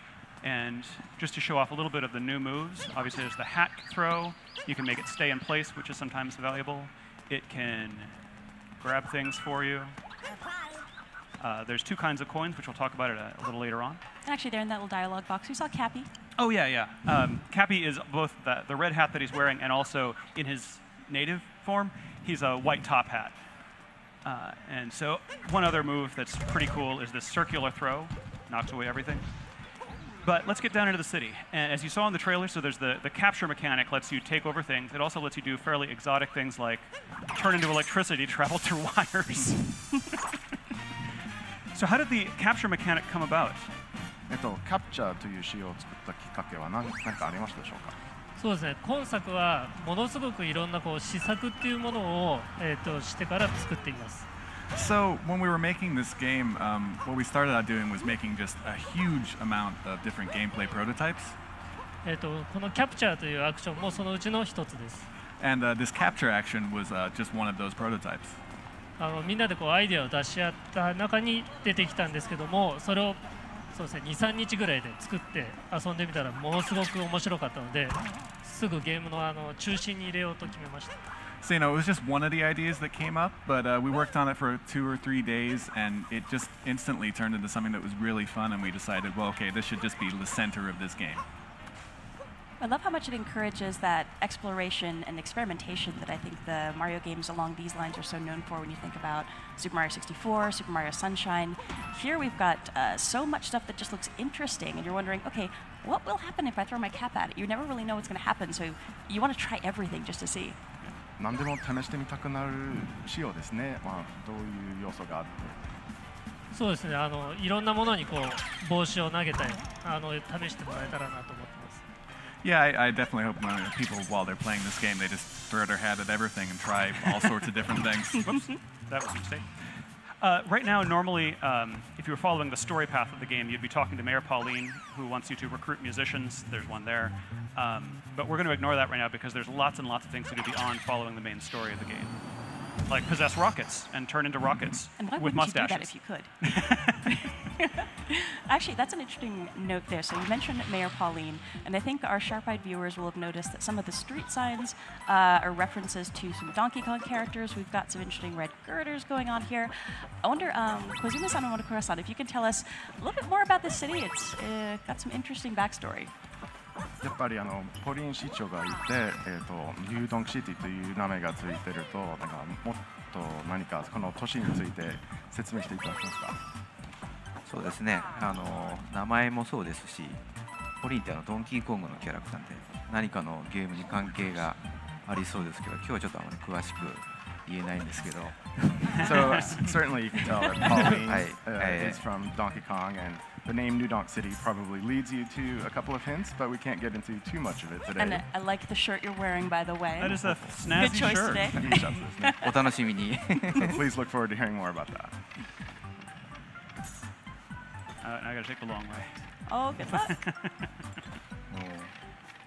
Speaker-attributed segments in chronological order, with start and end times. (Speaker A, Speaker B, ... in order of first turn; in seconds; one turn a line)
Speaker A: 0.4-8.2
Speaker A: 8.8-9.9
Speaker A: 11.4-14.0
Speaker B: 14.2-16.1
Speaker A: 16.4-23.6
Speaker A: 24.2-29.5
Speaker A: 30.2-40.0
Speaker A: 41.7-43.7
Speaker C: 44.3-48.0
Speaker D: 48.4-54.2
Speaker E: 54.7-61.4
Speaker D: 62.0-65.1
Speaker E: 65.4-68.4
Speaker D: 69.0-81.0
Speaker E: 81.4-91.2
Speaker B: 92.6-110.6
Speaker C: 111.2-115.7
Speaker D: 116.5-121.8
Speaker E: 122.4-128.5
Speaker A: 128.2-147.1
Speaker B: 145.0-166.1
Speaker C: 167.0-176.4
Speaker F: 177.4-189.1
Speaker C: 189.0-198.2
Speaker B: 189.1-189.6
Speaker A: 189.3-189.6
Speaker F: 191.1-192.0
Speaker B: 198.0-202.6
Speaker A: 200.0-201.7
Speaker C: 200.2-200.9
Speaker C: 201.5-202.5
Speaker F: 202.4-203.8
Speaker C: 203.6-205.4
Speaker A: 208.0-210.7
Speaker B: 209.4-210.2
Speaker F: 211.5-211.9